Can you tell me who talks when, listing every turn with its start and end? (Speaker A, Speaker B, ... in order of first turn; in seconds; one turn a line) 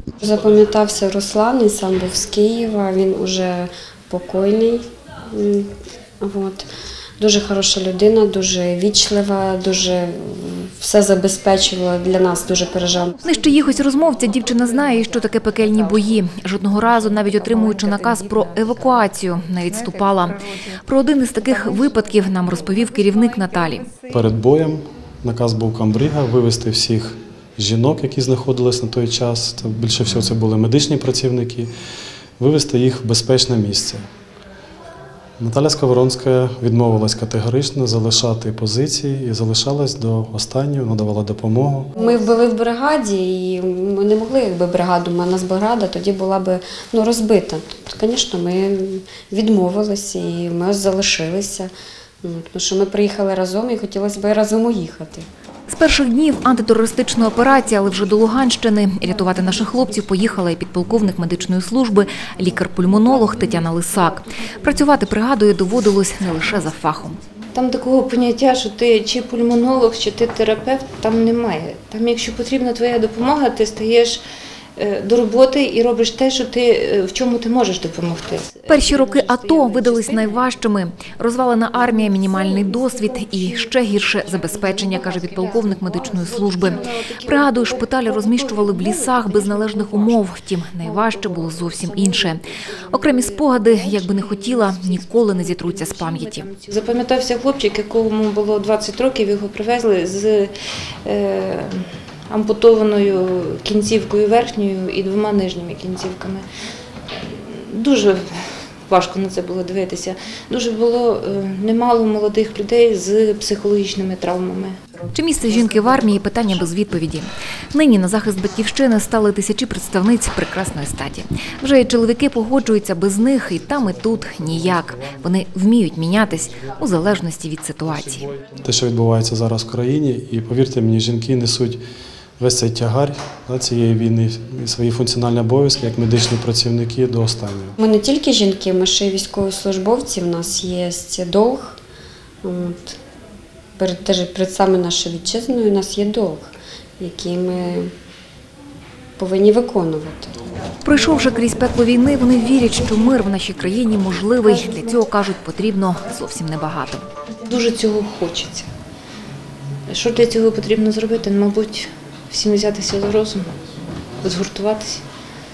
Speaker A: 0.2-6.7
Speaker A: 7.2-13.2
Speaker B: 13.2-23.9
Speaker C: 24.1-31.7
Speaker C: 32.4-34.0
Speaker C: 35.4-42.0
Speaker A: 42.0-51.7
Speaker A: 52.2-55.3
Speaker B: 55.7-67.2
Speaker D: 67.5-74.2
Speaker D: 74.8-80.5
Speaker B: 78.7-96.5
Speaker D: 81.8-90.2
Speaker D: 90.8-106.5
Speaker D: 107.1-114.8
Speaker B: 115.1-128.3
Speaker C: 123.6-125.2
Speaker C: 127.9-131.8
Speaker C: 132.4-137.8
Speaker A: 137.8-141.8
Speaker A: 142.4-143.0
Speaker A: 143.8-147.9
Speaker A: 149.2-150.3
Speaker B: 150.8-157.1
Speaker D: 157.5-158.7
Speaker D: 159.9-163.5
Speaker D: 164.2-165.1